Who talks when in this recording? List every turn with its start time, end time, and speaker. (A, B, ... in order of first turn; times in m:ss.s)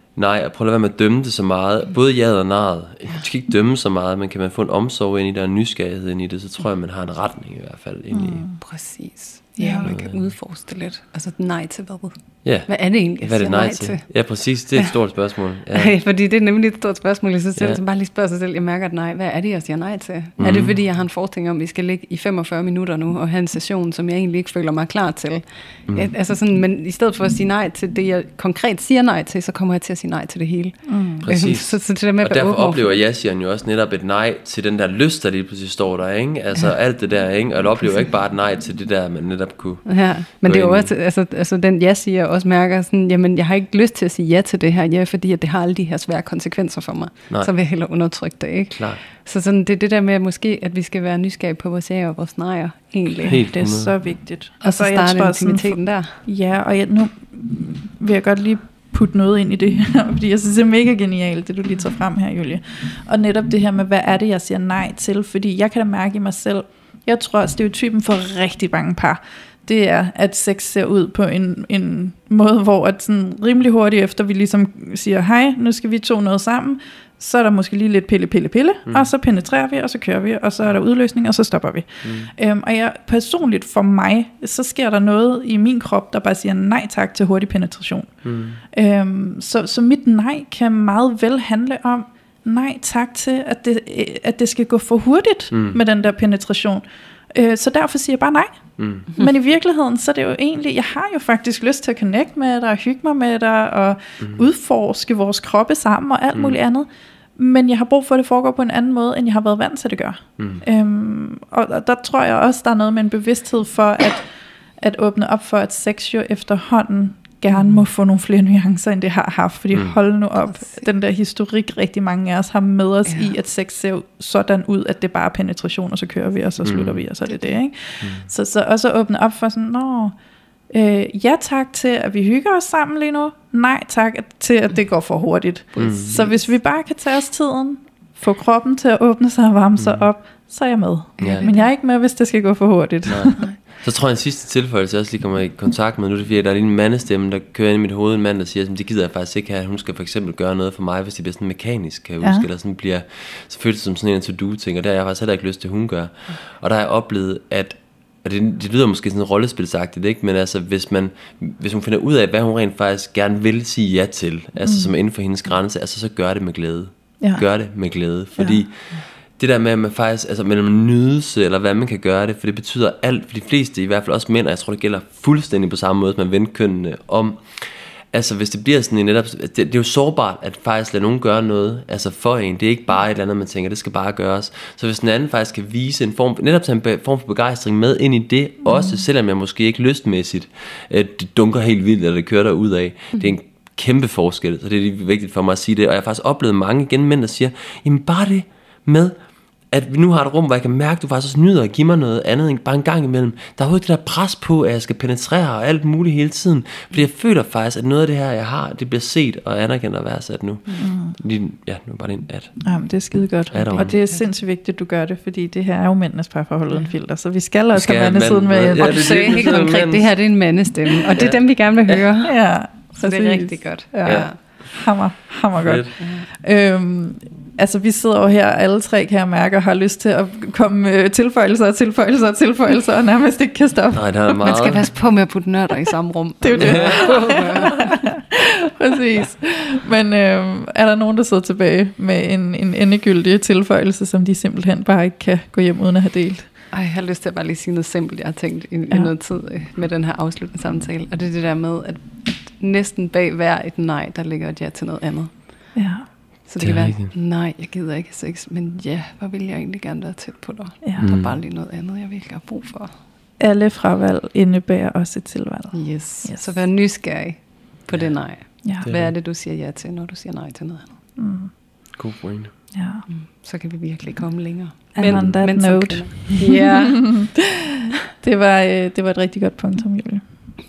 0:00.2-0:08.5 A
0:08.1-0:08.6 B
0:08.6-0:12.2 C
0:09.6-0:09.9 B
0:09.8-0:10.3 A
0:12.4-0:15.9 A
0:12.7-0:14.1 C
0:15.7-0:33.0 C
0:20.4-0:20.8 A
0:30.9-0:31.3 B
0:31.2-0:40.9 A
0:39.9-0:53.4 C
0:48.8-0:49.0 A
0:53.2-0:53.9 A
0:53.3-1:28.2 B
0:54.6-0:56.2 C
1:22.0-1:22.3 A
1:28.2-1:28.6 A
1:28.7-1:54.3 B
1:35.5-1:35.8 A
1:38.8-1:39.1 A
1:46.3-1:46.6 A
1:54.8-2:10.2 B
1:57.5-1:57.8 C
2:00.5-2:00.9 C
2:03.1-2:03.3 C
2:06.6-2:07.0 A
2:07.3-2:07.6 C
2:10.7-2:23.5 B
2:15.8-2:16.2 A
2:19.8-2:20.1 A
2:21.2-2:21.7 C
2:21.2-2:21.5 A
2:23.1-3:19.2 A
2:44.6-2:44.9 B
2:47.2-2:47.5 B
3:08.7-3:09.0 B
3:19.7-3:32.6 A
3:30.8-3:31.2 B
3:32.6-3:39.5 B
3:33.5-3:33.9 A
3:33.7-3:34.2 C
3:37.7-3:40.1 A
3:38.8-3:44.4 C
3:41.0-3:42.0 A
3:42.2-3:54.4 B
3:44.0-3:44.3 A
3:45.6-3:45.9 A
3:46.0-3:46.3 C
3:53.9-3:54.9 A
3:54.4-3:58.0 C
3:56.4-4:06.5 B
3:56.6-3:57.4 A
4:06.7-4:15.8 C
4:15.8-4:16.1 B
4:16.5-4:22.9 C
4:16.6-4:17.1 A
4:20.8-4:21.1 B
4:21.0-4:21.4 A
4:23.4-4:26.6 B
4:25.7-4:31.0 C
4:28.6-4:28.9 B
4:28.8-4:29.1 A
4:31.2-4:31.6 B
4:31.9-4:32.5 A
4:32.7-4:33.0 B
4:33.1-4:37.3 C
4:35.0-4:40.5 B
4:35.1-4:35.4 A